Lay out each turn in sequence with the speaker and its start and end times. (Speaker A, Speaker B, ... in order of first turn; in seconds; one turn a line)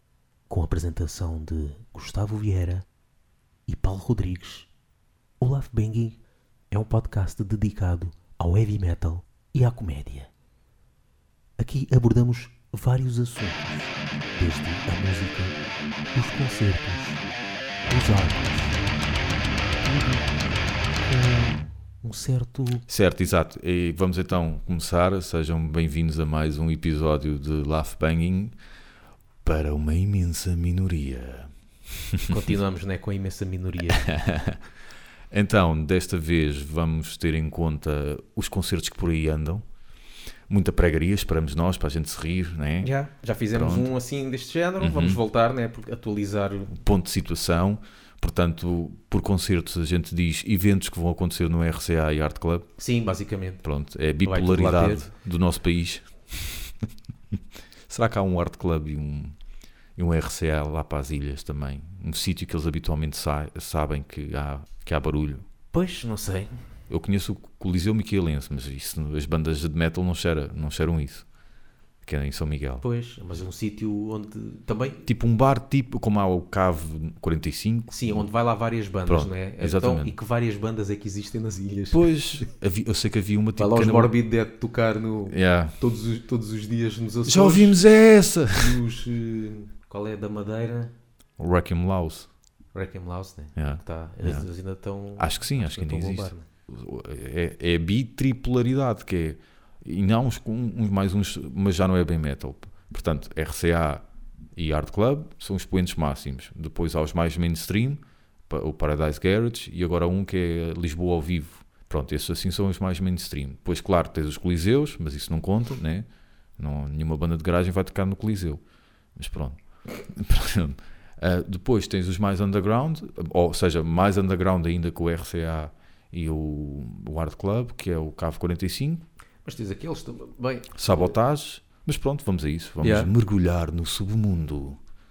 Speaker A: 0.5-2.8
Speaker A: 3.7-4.7
Speaker A: 5.4-6.2
Speaker A: 6.7-10.3
Speaker A: 11.6-15.6
Speaker A: 16.1-17.2
Speaker A: 17.8-18.8
Speaker A: 19.8-20.3
Speaker A: 21.1-22.8
Speaker B: 22.9-28.5
Speaker B: 29.4-31.5
Speaker B: 32.1-32.5
Speaker A: 32.3-34.1
Speaker B: 33.9-34.6
Speaker B: 35.3-39.6
Speaker B: 40.5-42.9
Speaker A: 42.8-46.7
Speaker B: 43.5-43.9
Speaker B: 44.8-45.2
Speaker B: 46.7-52.7
Speaker A: 52.8-53.6
Speaker B: 53.6-56.7
Speaker A: 54.2-55.0
Speaker B: 57.9-59.3
Speaker B: 60.0-65.4
Speaker A: 65.7-66.5
Speaker B: 66.9-71.3
Speaker B: 72.0-72.8
Speaker A: 72.8-75.0
Speaker B: 75.0-78.3
Speaker A: 77.9-82.5
Speaker B: 79.0-80.1
Speaker B: 81.9-84.1
Speaker A: 83.6-87.8
Speaker B: 85.3-85.8
Speaker B: 87.2-88.8
Speaker A: 88.5-90.9
Speaker B: 91.4-92.3
Speaker A: 92.7-96.5
Speaker B: 93.5-94.5
Speaker B: 95.2-104.0
Speaker B: 104.5-116.0
Speaker B: 116.6-118.6
Speaker B: 119.2-129.0
Speaker A: 129.4-131.1
Speaker B: 130.8-134.8
Speaker A: 132.8-133.1